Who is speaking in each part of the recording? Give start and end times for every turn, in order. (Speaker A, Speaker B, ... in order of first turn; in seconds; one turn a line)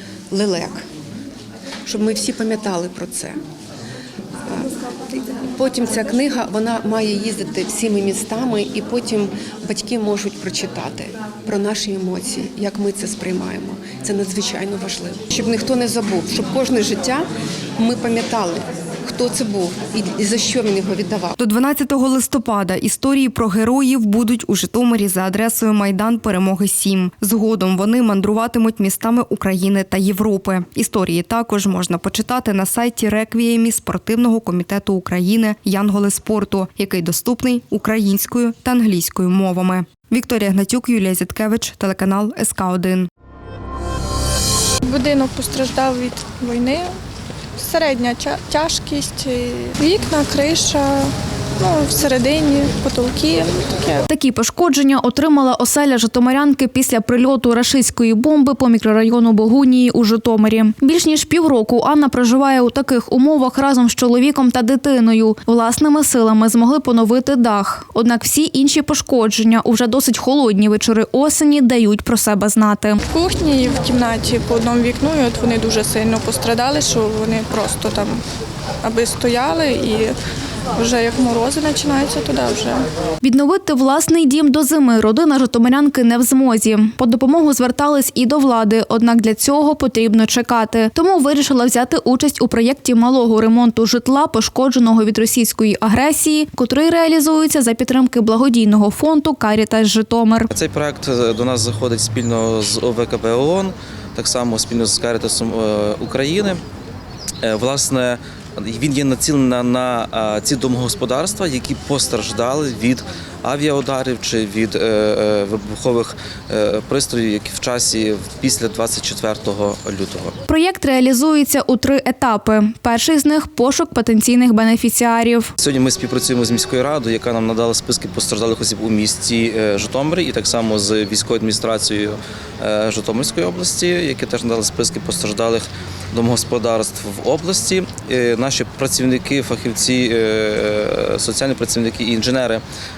Speaker A: 0.3-0.8
Speaker A: 1.9-3.4
Speaker A: 4.5-4.7
Speaker A: 5.5-17.3
Speaker A: 17.8-21.4
Speaker B: 21.4-43.1
Speaker C: 44.9-46.9
Speaker C: 47.6-54.0
Speaker D: 54.1-73.0
Speaker C: 73.1-78.2
Speaker C: 78.8-80.2
Speaker C: 80.8-82.9
Speaker D: 83.2-100.5
Speaker E: 100.5-106.6
Speaker E: 107.4-120.3
Speaker D: 120.5-125.5
Speaker E: 125.6-142.6